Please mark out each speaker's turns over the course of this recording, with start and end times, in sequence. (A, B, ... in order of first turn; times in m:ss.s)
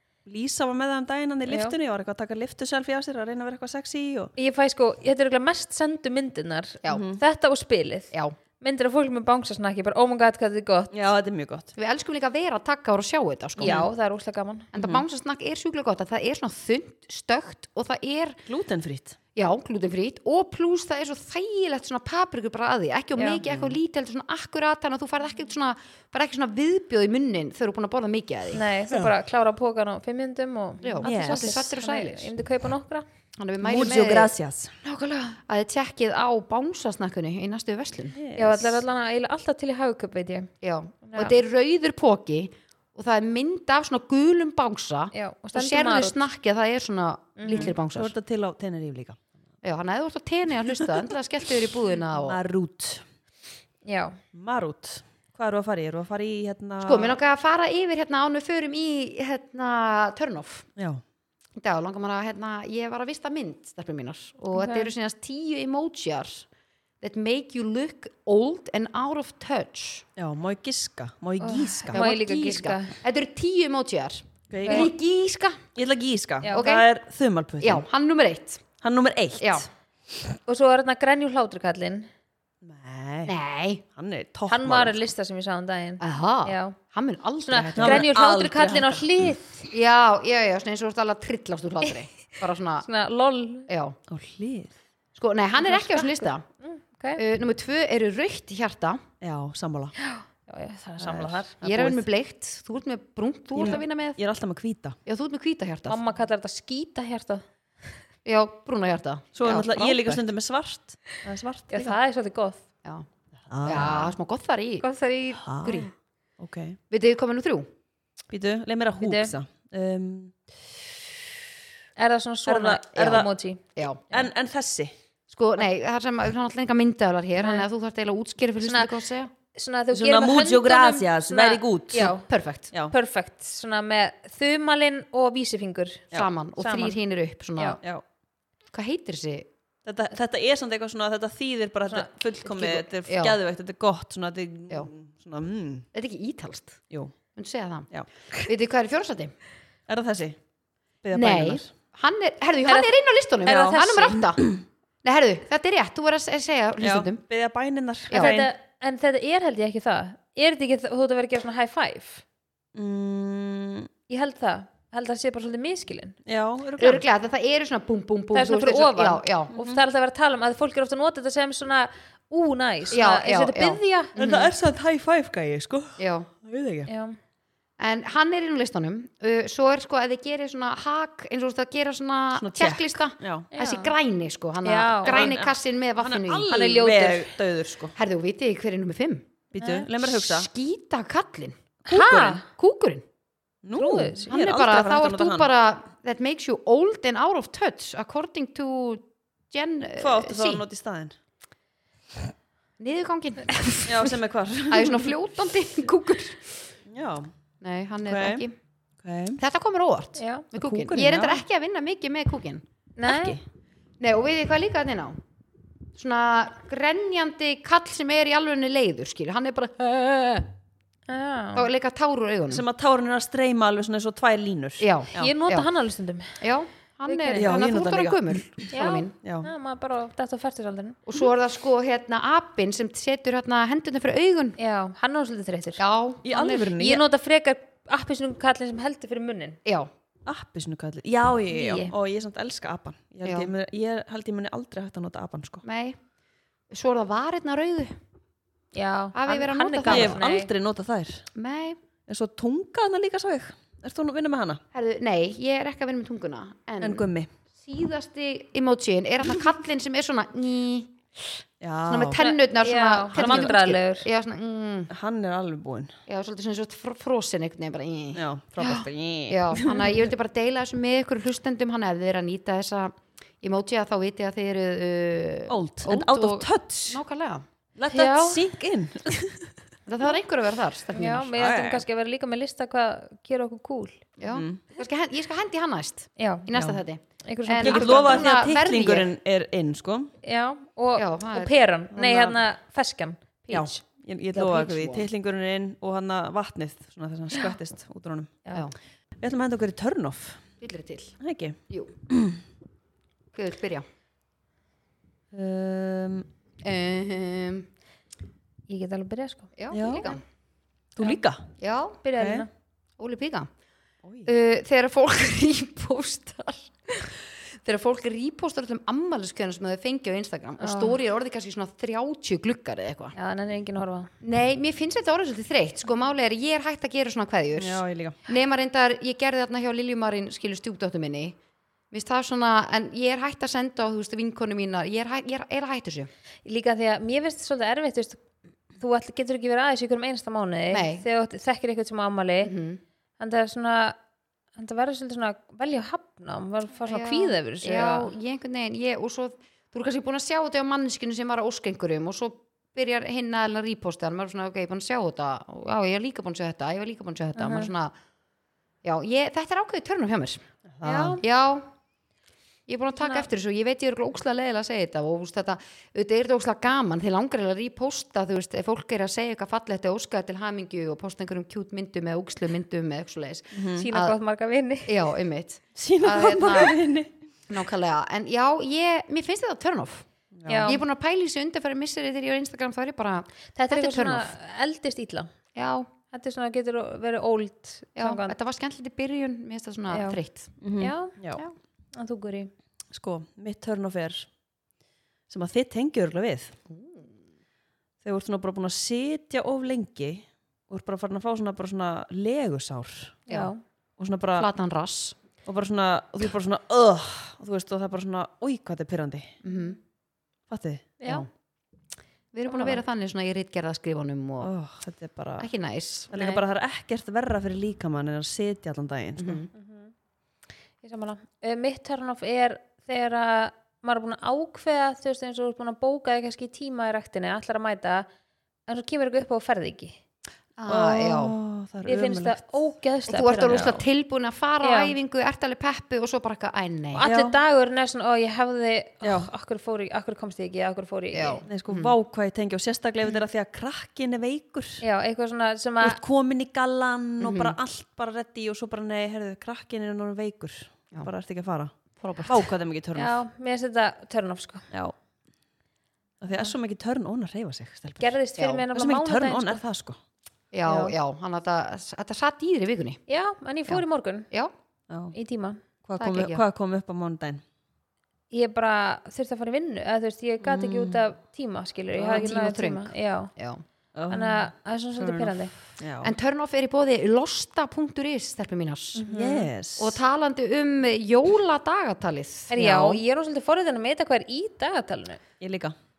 0:00.2-0:04.3 A
0:01.5-0:01.7 B
0:04.4-0:10.9 B
0:06.9-0:07.2 A
0:10.9-0:11.7 A
0:11.8-0:13.9 C
0:13.6-0:14.7 B
0:13.6-0:13.9 A
0:14.7-0:18.4 C
0:14.8-0:15.0 A
0:18.5-0:19.2 A
0:19.3-0:28.6 C
0:23.2-0:23.4 B
0:23.4-0:23.7 A
0:28.5-0:33.0 B
0:30.8-0:32.3 C
0:31.0-0:31.6 A
0:33.4-0:34.3 C
0:33.6-0:34.8 A
0:34.8-0:38.2 C
0:38.1-0:38.8 A
0:38.3-0:40.5 B
0:40.6-0:48.1 C
0:41.0-0:41.3 B
0:45.1-0:46.2 B
0:47.4-0:47.7 B
0:47.5-0:49.2 A
0:49.6-0:52.4 C
0:52.1-0:53.0 A
0:53.8-0:54.2 B
0:54.3-0:57.2 A
0:56.8-1:00.6 C
1:00.8-1:01.0 A
1:01.6-1:06.5 C
1:04.5-1:04.9 B
1:07.0-1:10.0 C
1:10.2-1:12.0 A
1:11.4-1:12.9 B
1:11.9-1:15.6 C
1:14.5-1:14.9 A
1:15.8-1:17.8 A
1:16.5-1:16.9 C
1:17.6-1:18.6 C
1:18.8-1:19.6 A
1:19.4-1:19.7 C
1:20.5-1:22.1 B
1:22.6-1:23.3 A
1:23.2-1:23.8 C
1:23.9-1:25.0 A
1:24.5-1:26.8 B
1:26.0-1:28.1 C
1:27.4-1:29.7 B
1:27.8-1:29.2 A
1:29.7-1:32.8 C
1:32.8-1:33.7 B
1:33.7-1:34.0 C
1:34.1-1:34.7 A
1:35.1-1:36.4 C
1:35.6-1:37.2 B
1:37.2-1:39.0 C
1:39.2-1:39.9 A
1:40.0-1:41.5 B
1:41.0-1:42.0 A
1:41.6-1:44.2 C
1:43.5-1:45.0 A
1:45.0-1:46.0 C
1:45.9-1:47.4 B
1:48.2-1:50.2 C
1:49.3-1:52.0 A
1:51.7-1:52.6 B
1:53.5-1:54.1 A
1:53.6-1:54.8 C
1:54.8-1:55.8 B
1:55.4-1:55.9 A
1:55.6-1:55.9 C
1:56.4-1:56.8 A
1:56.9-1:57.7 C
1:58.3-2:00.4 A
1:59.0-1:59.3 B
2:02.0-2:04.3 B
2:02.5-2:03.3 A
2:03.8-2:04.0 C
2:04.1-2:04.9 A
2:05.3-2:09.3 C
2:08.6-2:08.9 B
2:09.5-2:12.3 B
2:09.9-2:12.1 A
2:12.0-2:12.7 C
2:12.9-2:17.0 B
2:16.1-2:17.8 C
2:18.7-2:19.5 C
2:19.8-2:25.9 A
2:22.5-2:23.4 C
2:25.9-2:26.8 C
2:27.4-2:27.9 C
2:27.9-2:28.5 A
2:28.4-2:29.3 C
2:29.9-2:30.4 A
2:31.0-2:31.7 A
2:31.1-2:34.5 C
2:33.4-2:34.6 A
2:33.5-2:34.1 B
2:35.0-2:37.2 C
2:36.8-2:38.5 A
2:38.1-2:38.4 C
2:38.1-2:42.2 B
2:42.7-2:43.9 A
2:44.1-2:46.2 B
2:46.2-2:47.0 A
2:46.8-2:49.5 C
2:48.3-2:54.1 B
2:52.9-2:54.5 C
2:54.2-2:56.9 A
2:56.0-2:56.3 C
2:56.9-2:57.2 B
2:57.8-3:06.5 C
3:02.3-3:03.5 A
3:03.5-3:03.9 B
3:04.6-3:05.3 B
3:05.0-3:07.9 A
3:06.5-3:07.3 B
3:08.0-3:09.3 C
3:09.5-3:10.5 A
3:09.6-3:09.9 B
3:10.0-3:11.6 C
3:11.9-3:12.4 B
3:11.9-3:12.4 A
3:12.4-3:13.0 C
3:13.6-3:15.5 A
3:13.7-3:14.3 B
3:14.3-3:20.6 C
3:20.0-3:21.1 A
3:22.8-3:24.2 C
3:23.8-3:25.1 A
3:24.7-3:26.7 C
3:26.9-3:27.3 A
3:27.6-3:28.5 C
3:28.0-3:28.4 A
3:29.0-3:29.4 A
3:29.4-3:32.6 C
3:30.2-3:30.4 B
3:30.5-3:31.4 A
3:33.0-3:33.4 B
3:33.0-3:33.4 A
3:34.0-3:35.2 C
3:35.9-3:40.5 C
3:41.1-3:41.7 B
3:41.5-3:42.6 C
3:42.5-3:45.3 A
3:44.8-3:45.7 C
3:45.1-3:46.4 B
3:46.4-3:49.2 C
3:47.1-3:47.6 B
3:47.4-3:48.7 A
3:48.7-3:51.0 B
3:49.2-3:49.5 A
3:51.0-3:54.6 C
3:54.6-3:55.8 B
3:55.8-3:56.7 C
3:56.2-3:57.0 A
3:56.4-3:59.6 B
3:59.6-3:59.9 C
4:00.2-4:05.6 A
4:01.5-4:01.9 B
4:03.2-4:03.5 C
4:05.6-4:06.0 C
4:06.7-4:08.0 C
4:08.7-4:10.5 B
4:09.1-4:10.2 C
4:09.9-4:11.3 A
4:11.3-4:11.8 C
4:12.1-4:14.6 A
4:14.7-4:24.9 C
4:16.8-4:17.3 A
4:21.6-4:22.2 A
4:22.1-4:24.1 B
4:23.1-4:23.5 A
4:24.9-4:25.9 A
4:26.1-4:37.4 C
4:28.1-4:30.0 A
4:35.5-4:37.0 A
4:37.8-4:39.5 A
4:37.9-4:38.4 B
4:39.8-4:41.3 C
4:40.9-4:44.0 B
4:41.4-4:41.8 A
4:44.2-4:49.1 C
4:44.3-4:44.6 A
4:46.2-4:46.5 B
4:46.5-4:46.8 A
4:47.2-4:48.2 B
4:47.6-4:50.1 A
4:50.2-4:53.8 B
4:51.0-4:51.5 C
4:51.9-4:52.4 A
4:53.5-4:58.4 A
4:54.3-4:55.1 C
4:59.2-5:00.4 A
5:00.6-5:01.1 C
5:01.2-5:01.6 A
5:02.1-5:02.4 A
5:03.3-5:03.8 C
5:05.3-5:06.3 A
5:06.6-5:07.7 C
5:08.7-5:09.5 B
5:09.6-5:10.2 C
5:09.7-5:10.1 A
5:11.0-5:11.5 A
5:11.6-5:12.0 C
5:12.0-5:12.5 B
5:12.2-5:12.4 A
5:13.0-5:13.5 C
5:14.0-5:14.3 A
5:14.2-5:23.1 C
5:20.6-5:21.0 B
5:23.1-5:24.1 B
5:24.2-5:31.4 C
5:27.6-5:28.2 A
5:31.9-5:36.1 C
5:36.4-5:38.2 B
5:38.8-5:42.5 B
5:40.7-5:41.0 C
5:42.4-5:42.8 C
5:43.2-5:44.0 B
5:44.5-5:48.1 B
5:46.8-5:57.9 C
5:57.4-5:57.7 B
5:58.8-6:00.4 C
6:00.7-6:01.2 A
6:00.8-6:01.2 B
6:01.2-6:01.7 C
6:02.7-6:14.1 C
6:03.0-6:03.3 B
6:13.5-6:13.9 A
6:13.7-6:14.9 B
6:14.9-6:16.8 C
6:15.8-6:17.1 A
6:17.5-6:20.0 C
6:20.4-6:20.7 A
6:20.5-6:20.8 B
6:20.6-6:24.3 C
6:23.5-6:25.3 B
6:25.5-6:25.9 C
6:26.1-6:28.3 B
6:28.0-6:30.5 C
6:29.9-6:30.2 B
6:30.6-6:31.4 A
6:30.8-6:31.1 B
6:31.9-6:32.5 B
6:32.9-6:34.3 A
6:35.3-6:36.5 A
6:36.7-6:37.1 C
6:38.0-6:43.2 A
6:43.3-6:43.6 B
6:43.3-6:43.5 C
6:44.0-6:44.5 A
6:44.4-6:45.2 C
6:45.4-6:49.4 A
6:49.4-6:49.8 C
6:49.5-6:49.7 B
6:50.5-6:51.0 A
6:51.0-6:51.3 B
6:52.3-6:54.5 C
6:52.5-6:52.8 B
6:54.4-6:55.5 A
6:55.4-6:56.4 C
6:56.1-6:59.4 A
6:59.2-6:59.5 C
6:59.5-6:59.9 B
7:00.8-7:08.1 B
7:08.7-7:10.0 B
7:10.6-7:11.4 C
7:10.7-7:12.4 A
7:11.8-7:13.7 B
7:13.1-7:17.0 C
7:13.2-7:13.8 A
7:14.6-7:14.9 B
7:16.9-7:21.4 B
7:17.0-7:17.3 A
7:19.0-7:19.3 A
7:21.1-7:22.0 C
7:21.5-7:24.8 A
7:24.8-7:26.0 B
7:25.8-7:31.7 A
7:27.2-7:27.6 C
7:32.0-7:32.5 C
7:32.2-7:33.2 A
7:33.0-7:34.7 B
7:36.2-7:38.2 A
7:38.0-7:39.6 B
7:38.4-7:38.6 C
7:38.7-7:40.0 A
7:40.5-7:43.0 C
7:40.6-7:40.9 B
7:43.1-7:44.3 B
7:43.7-7:44.5 C
7:44.9-7:45.1 A
7:45.1-7:45.6 B
7:45.8-7:47.4 A
7:46.0-7:46.4 C
7:48.3-7:53.3 B
7:50.4-7:51.0 A
7:52.0-7:53.6 C
7:53.9-7:56.1 A
7:54.1-7:55.5 B
7:56.0-7:59.0 C
7:58.9-7:59.5 B
7:59.1-8:00.0 A
7:59.8-8:03.0 C
8:02.5-8:05.2 B
8:05.4-8:05.7 A